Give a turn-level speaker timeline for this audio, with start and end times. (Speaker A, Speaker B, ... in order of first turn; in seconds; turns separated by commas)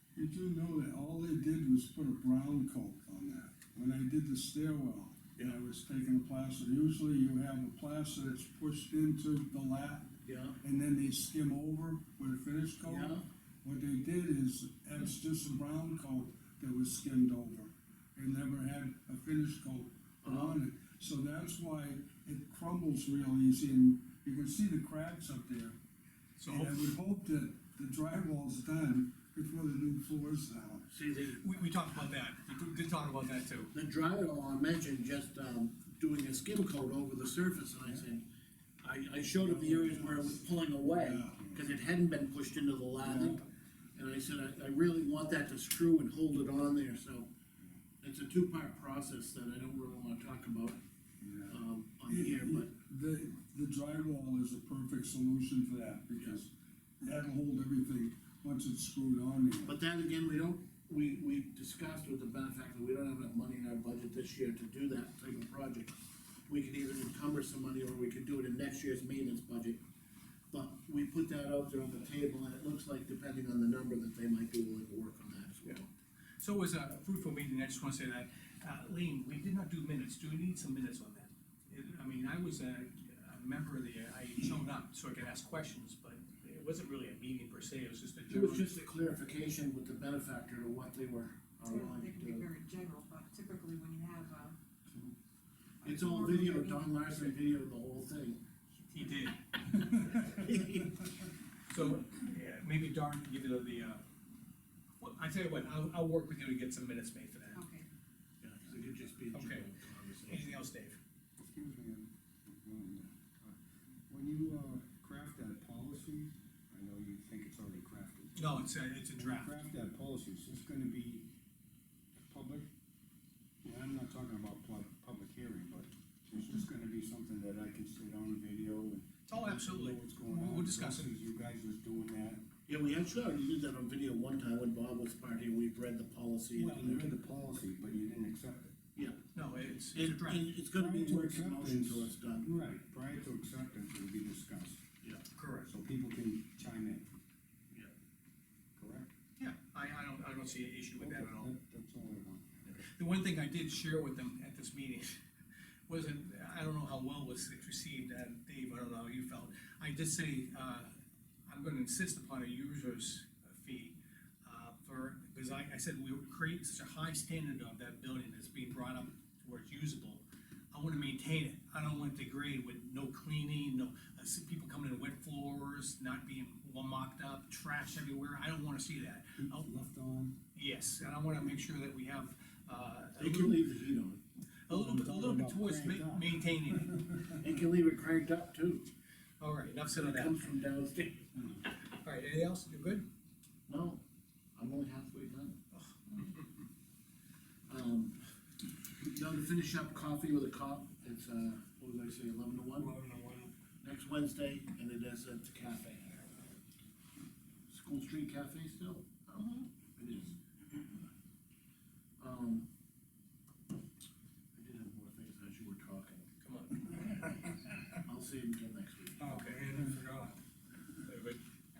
Speaker A: 0.1-25.8, Speaker B: 10.2-10.6, Speaker B: 12.8-13.2, Speaker B: 20.2-20.6, Speaker C: 26.4-26.9, Speaker A: 26.5-30.9, Speaker B: 30.9-31.5, Speaker C: 31.4-33.7, Speaker B: 33.7-38.2, Speaker B: 38.8-47.3, Speaker D: 39.5-41.6, Speaker A: 43.0-43.4, Speaker B: 48.0-50.8, Speaker A: 51.2-59.7, Speaker B: 51.5-52.7, Speaker B: 59.6-66.0, Speaker B: 66.5-69.8, Speaker B: 70.5-75.9, Speaker C: 76.4-88.8, Speaker B: 88.3-92.5, Speaker E: 91.6-94.5, Speaker B: 95.8-98.4, Speaker E: 95.9-97.1, Speaker C: 98.9-100.2, Speaker B: 100.1-101.1, Speaker C: 101.7-104.0, Speaker C: 105.0-107.6, Speaker E: 107.5-107.9, Speaker B: 108.4-110.5, Speaker C: 109.3-109.7, Speaker C: 110.3-111.0, Speaker D: 111.4-113.6, Speaker D: 114.1-118.6, Speaker C: 118.3-119.6, Speaker D: 119.2-121.3, Speaker D: 122.2-122.7, Speaker D: 123.6-132.4, Speaker C: 129.3-131.1, Speaker B: 132.7-137.1, Speaker D: 136.6-138.8, Speaker B: 138.9-139.2, Speaker C: 139.3-140.5, Speaker B: 139.9-142.5, Speaker D: 140.7-144.8, Speaker C: 145.3-145.7, Speaker D: 145.7-147.1, Speaker D: 148.8-149.1, Speaker C: 149.4-151.5, Speaker D: 151.0-152.9, Speaker C: 152.8-155.2, Speaker C: 155.9-160.9, Speaker C: 161.5-179.7, Speaker D: 179.4-180.4, Speaker C: 180.5-183.6, Speaker B: 183.2-184.2, Speaker C: 184.7-187.0, Speaker D: 184.7-187.1, Speaker B: 187.2-188.9, Speaker C: 189.4-190.5, Speaker B: 189.9-191.4, Speaker C: 191.7-193.1, Speaker B: 193.7-194.0, Speaker B: 194.6-195.6, Speaker B: 197.7-198.2, Speaker B: 199.1-202.9, Speaker A: 202.8-203.5, Speaker B: 203.8-206.3, Speaker B: 207.7-210.3, Speaker B: 212.2-212.7, Speaker B: 214.5-216.3, Speaker C: 216.4-217.0, Speaker B: 217.9-219.3, Speaker C: 219.2-220.4, Speaker C: 221.0-221.4